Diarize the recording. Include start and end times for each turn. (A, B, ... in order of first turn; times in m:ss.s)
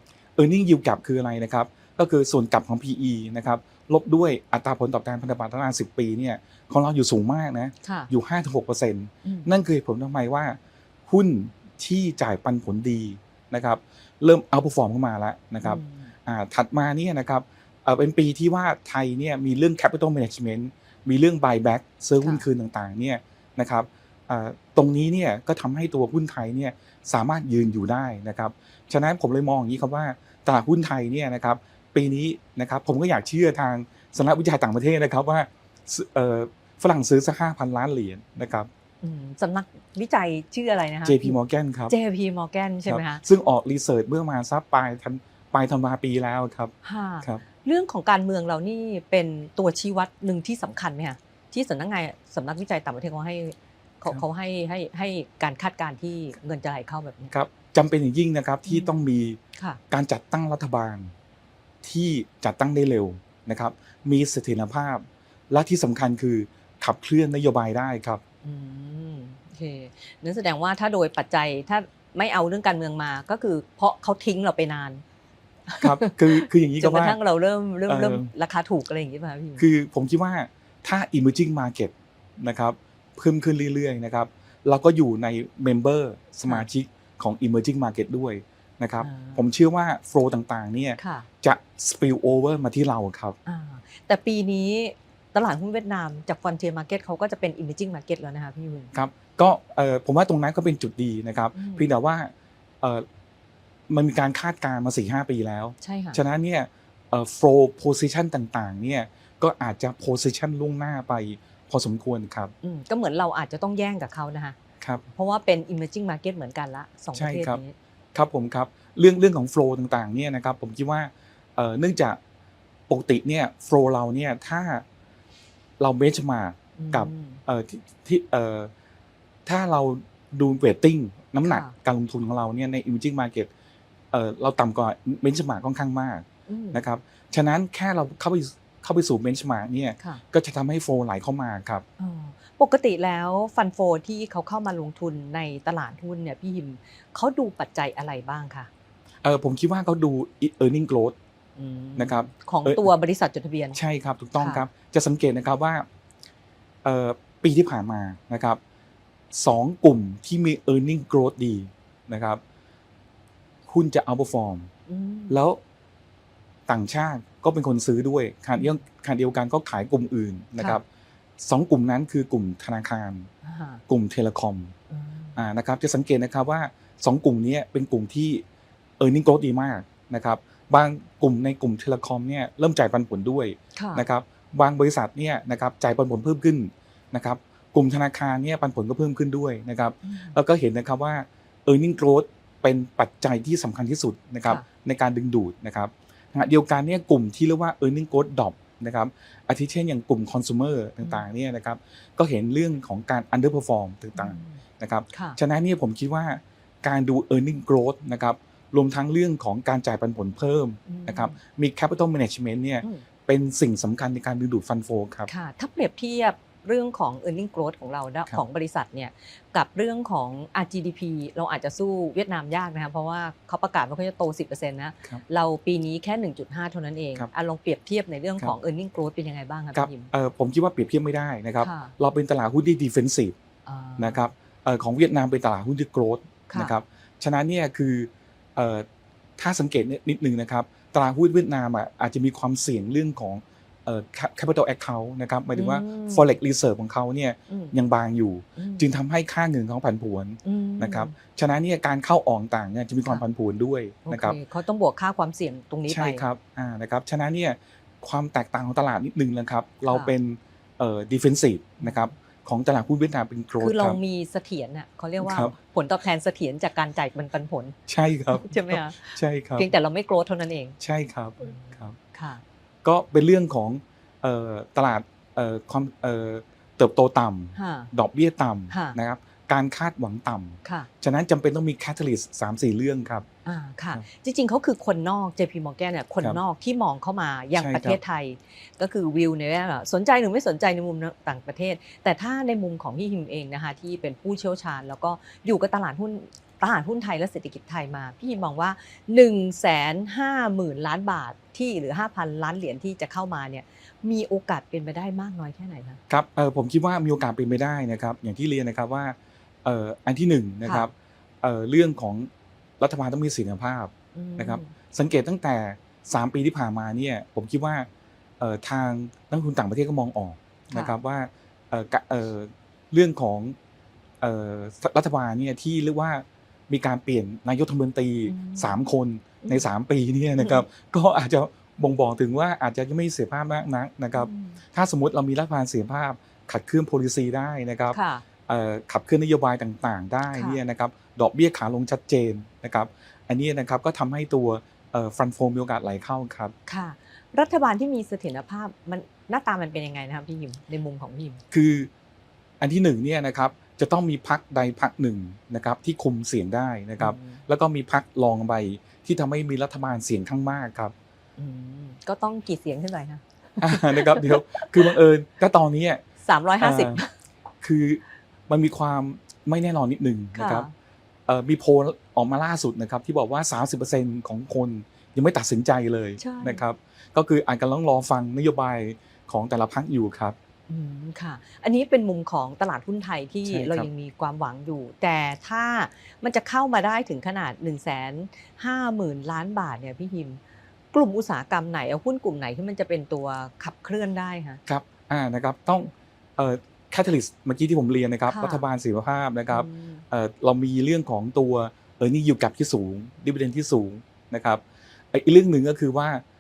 0:00.4-0:38.7 A
0:07.8-0:08.1 B
0:15.6-0:16.1 B
0:22.2-0:22.5 B
0:39.0-0:43.2 B
0:41.0-0:41.9 A
0:42.9-0:47.4 A
0:46.8-0:57.3 B
0:57.3-0:59.4 A
0:58.7-0:59.0 B
0:59.9-1:01.1 A
1:01.8-1:08.2 A
1:08.4-1:15.0 B
1:15.7-1:19.7 B
1:15.8-1:17.2 A
1:17.9-1:18.3 A
1:19.6-1:33.4 A
1:29.0-1:29.4 B
1:31.0-1:31.3 B
1:33.5-1:38.9 B
1:38.9-1:43.1 A
1:41.5-1:41.9 B
1:43.9-1:52.5 A
1:45.8-1:46.2 B
1:52.6-1:54.6 B
1:54.8-1:55.1 A
1:55.2-1:57.8 B
1:57.1-1:57.6 A
1:58.2-2:02.2 A
2:02.9-2:04.8 A
2:05.8-2:08.7 A
2:06.8-2:07.4 B
2:09.5-2:13.5 A
2:11.4-2:11.7 B
2:14.1-2:21.8 A
2:16.5-2:16.8 B
2:22.0-2:28.7 B
2:29.2-2:31.2 A
2:31.6-2:33.8 B
2:32.0-2:32.9 A
2:33.7-2:35.9 A
2:34.4-2:34.7 B
2:36.8-2:38.6 A
2:39.3-2:42.4 A
2:43.7-2:44.7 A
2:44.9-2:45.4 B
2:45.3-2:45.6 A
2:46.7-2:50.8 A
2:51.4-2:53.3 A
2:53.4-2:53.8 B
2:53.9-2:54.7 A
2:54.9-2:55.4 B
2:55.4-2:58.4 A
2:59.0-3:35.3 A
3:03.8-3:04.1 B
3:10.0-3:10.4 B
3:24.2-3:24.6 B
3:25.1-3:25.4 B
3:30.9-3:31.4 B
3:35.3-3:50.1 B
3:49.7-3:53.4 A
3:51.6-3:51.9 B
3:53.7-3:54.2 B
3:54.0-3:58.9 A
3:59.4-4:14.4 A
4:05.5-4:06.3 B
4:07.5-4:07.8 B
4:08.6-4:08.9 B
4:10.4-4:11.1 B
4:14.1-4:16.3 B
4:15.9-4:24.0 A
4:19.9-4:20.1 B
4:21.8-4:22.1 B
4:23.6-4:27.8 B
4:25.2-4:25.5 A
4:27.9-4:29.7 A
4:28.3-4:30.8 B
4:30.8-4:32.0 A
4:31.4-4:32.4 B
4:32.8-4:43.3 A
4:37.6-4:37.9 B
4:38.7-4:39.0 B
4:43.4-5:06.0 B
4:47.6-4:48.0 A
5:06.1-5:17.9 A
5:14.2-5:14.7 B
5:18.4-5:23.6 A
5:24.2-5:46.5 A
5:28.3-5:28.8 B
5:29.4-5:29.7 B
5:30.4-5:30.7 B
5:34.1-5:34.6 B
5:37.9-5:38.2 B
5:40.3-5:40.6 B
5:46.7-5:51.4 B
5:51.5-5:51.9 A
5:52.6-6:00.9 A
5:57.0-5:57.4 B
6:01.4-6:05.0 B
6:03.6-6:06.0 A
6:06.2-6:07.1 B
6:06.6-6:07.0 A
6:07.6-6:10.7 A
6:10.4-6:10.7 B
6:11.3-6:20.4 A
6:16.2-6:16.6 B
6:20.7-6:30.4 B
6:23.5-6:23.9 A
6:30.9-6:34.6 B
6:34.7-6:46.2 A
6:38.3-6:38.7 B
6:39.5-6:40.0 B